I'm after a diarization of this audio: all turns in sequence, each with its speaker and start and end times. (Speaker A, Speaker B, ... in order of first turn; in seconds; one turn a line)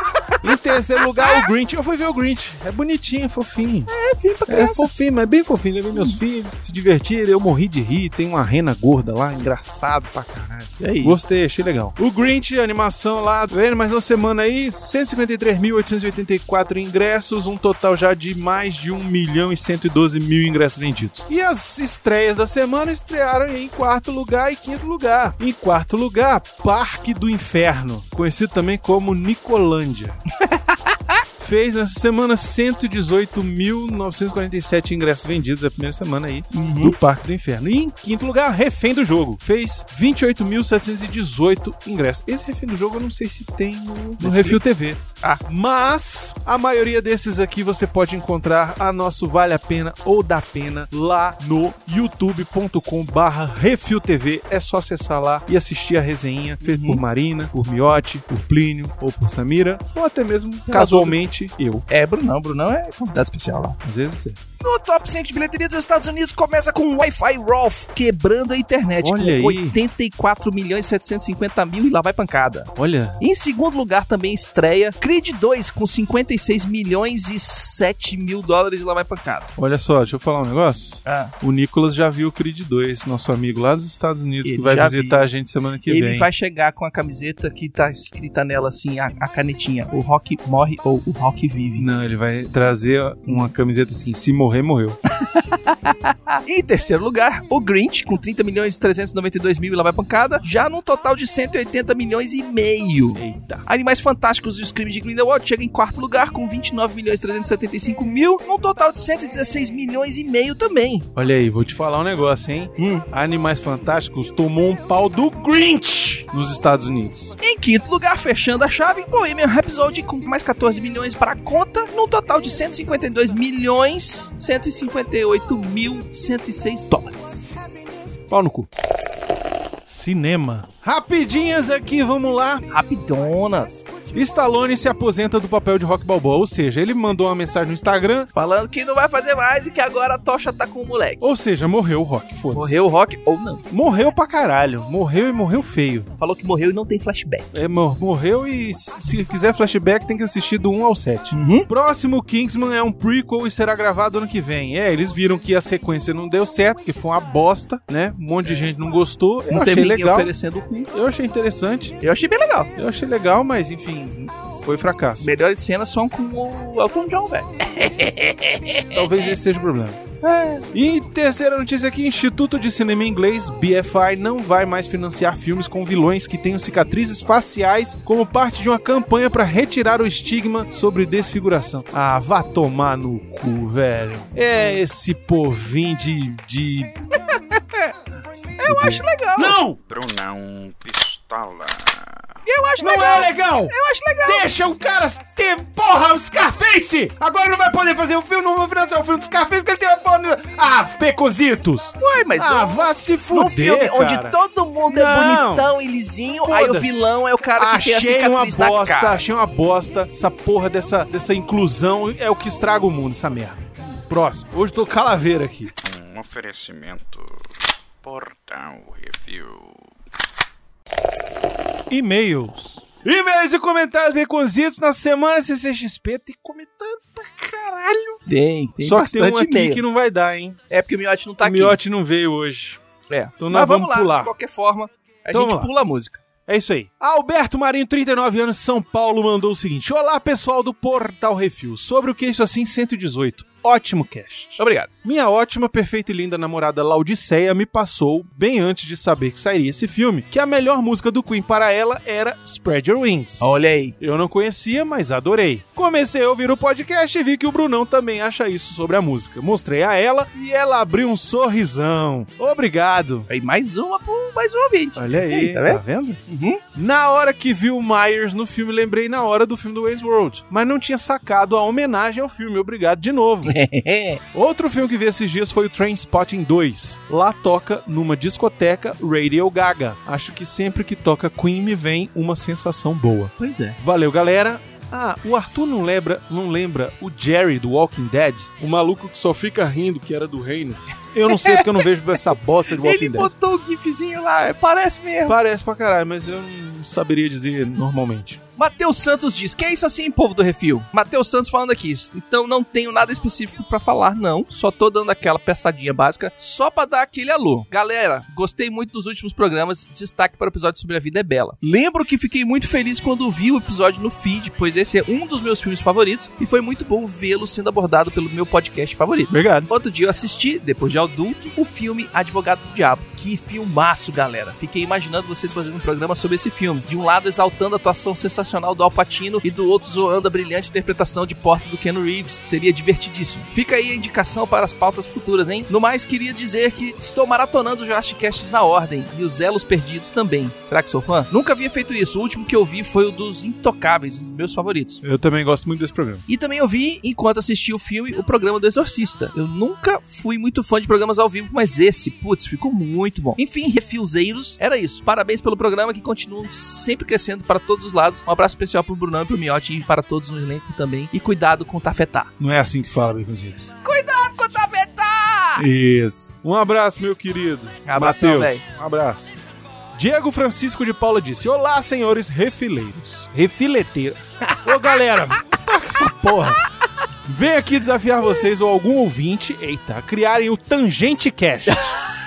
Speaker A: 0.4-3.9
Speaker B: 3.9-4.9
Speaker A: 4.5-30.2
Speaker B: 5.9-6.2
Speaker B: 10.8-11.2
Speaker B: 30.4-31.1
Speaker A: 31.4-61.8
Speaker B: 36.5-37.0
Speaker B: 44.2-45.4
Speaker B: 56.6-57.0
Speaker B: 60.7-61.2
Speaker B: 61.9-63.8
Speaker A: 63.8-64.4
Speaker B: 64.6-79.5
Speaker A: 69.0-69.8
Speaker A: 72.8-73.2
Speaker A: 79.6-86.3
Speaker B: 81.0-81.3
Speaker B: 84.4-85.2
Speaker B: 85.8-91.9
Speaker A: 91.8-95.0
Speaker B: 95.1-111.1
Speaker A: 103.1-103.6
Speaker A: 111.2-117.3
Speaker B: 112.8-113.0
Speaker B: 117.4-127.5
Speaker A: 128.3-128.7
Speaker A: 129.8-132.7
Speaker B: 132.7-133.8
Speaker A: 134.1-138.3
Speaker B: 138.3-141.2
Speaker A: 141.2-142.8
Speaker B: 142.5-143.6
Speaker A: 143.7-146.1
Speaker B: 146.2-147.6
Speaker A: 147.5-160.3
Speaker B: 151.3-151.7
Speaker B: 159.5-160.9
Speaker A: 160.9-162.0
Speaker B: 162.0-162.7
Speaker A: 162.8-165.3
Speaker B: 165.2-169.3
Speaker A: 168.9-170.0
Speaker B: 170.2-170.7
Speaker A: 170.7-187.0
Speaker B: 187.3-187.8
Speaker B: 188.6-189.6
Speaker A: 188.6-189.8
Speaker C: 189.9-192.2
Speaker B: 192.4-194.4
Speaker A: 192.8-205.7
Speaker B: 202.0-209.2
Speaker A: 206.4-207.0
Speaker A: 207.6-215.7
Speaker C: 215.8-217.4
Speaker C: 218.0-219.9
Speaker A: 221.9-228.2
Speaker B: 228.3-229.8
Speaker A: 228.8-230.6
Speaker B: 230.7-231.8
Speaker A: 231.4-232.8
Speaker B: 233.1-236.2
Speaker A: 233.4-234.3
Speaker A: 235.3-235.7
Speaker A: 236.5-263.3
Speaker B: 244.6-244.9
Speaker B: 253.4-254.0
Speaker B: 263.3-266.6
Speaker A: 264.9-266.2
Speaker A: 266.7-273.6
Speaker B: 273.4-274.2
Speaker A: 274.3-293.3
Speaker B: 283.4-283.8
Speaker B: 291.3-291.8
Speaker B: 292.7-295.4
Speaker A: 295.2-298.4
Speaker B: 298.6-345.0
Speaker A: 319.3-319.7
Speaker A: 345.0-346.2
Speaker B: 346.3-362.3
Speaker A: 362.4-363.7
Speaker B: 363.8-365.6
Speaker A: 365.6-369.4
Speaker B: 367.8-368.6
Speaker A: 369.9-376.6
Speaker A: 377.2-382.0